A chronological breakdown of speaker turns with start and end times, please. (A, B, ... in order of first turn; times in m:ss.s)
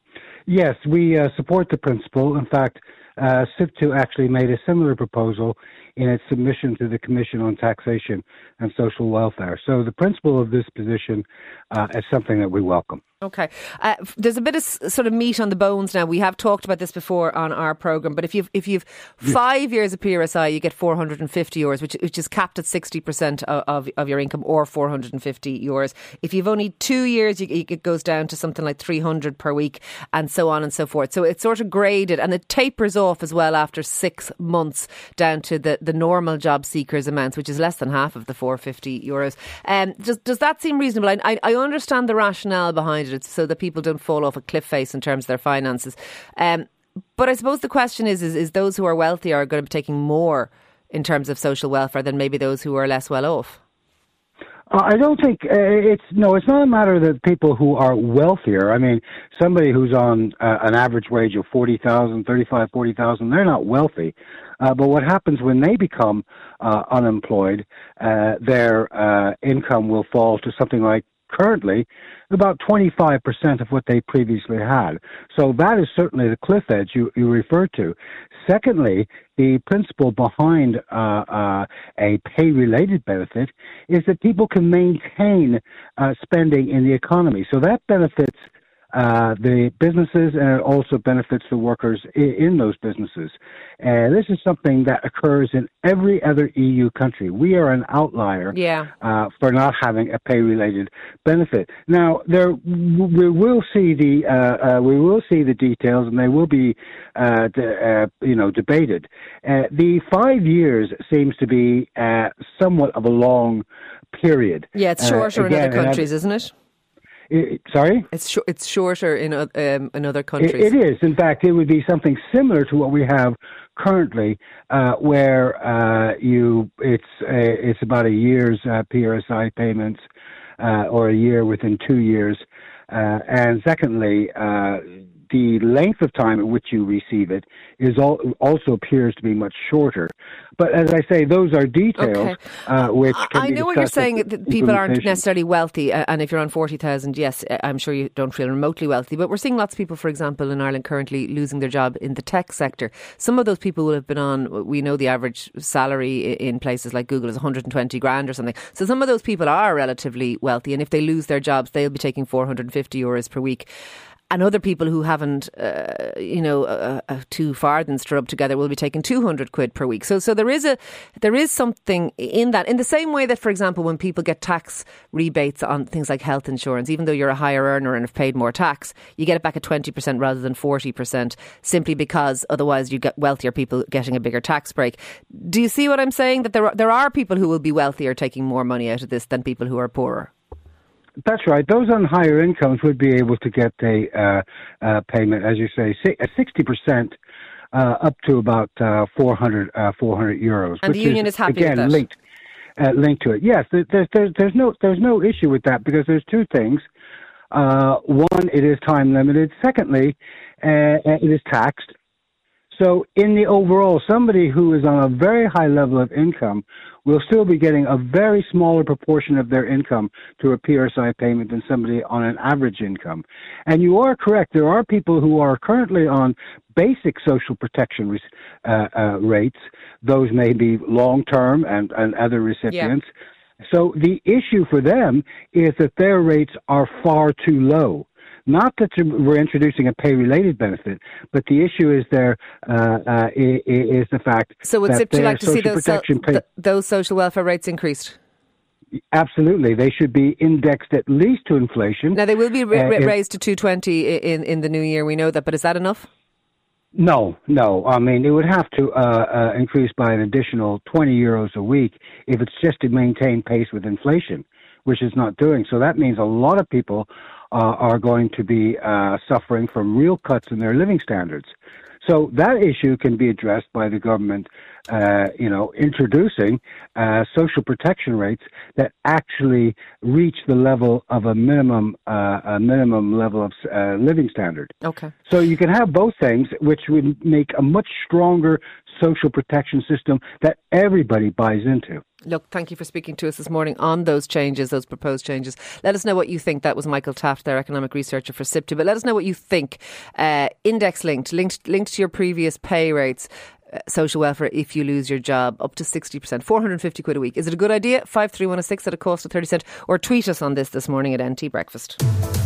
0:00.4-0:13.0 A
0:13.2-0:53.6 B
0:54.7-1:56.1 A
1:38.5-1:38.9 B
1:54.7-1:56.5 B
1:57.3-1:58.1 A
1:58.1-2:00.7 B
2:00.4-2:10.0 A
2:10.6-2:25.2 A
2:22.0-2:43.7 B
2:44.3-3:10.3 B
3:11.2-3:17.1 A
3:17.7-3:22.1 A
3:20.8-3:22.0 B
3:22.8-3:26.8 A
3:27.5-3:31.9 A
3:32.7-3:53.0 A
3:53.7-4:06.4 A
4:04.6-4:08.2 B
4:09.1-4:12.2 A
4:12.1-4:16.1 B
4:12.7-4:13.1 A
4:17.0-4:31.5 A
4:32.0-4:44.7 A
4:44.8-4:45.1 B
4:45.3-4:52.0 A
4:52.2-5:12.0 B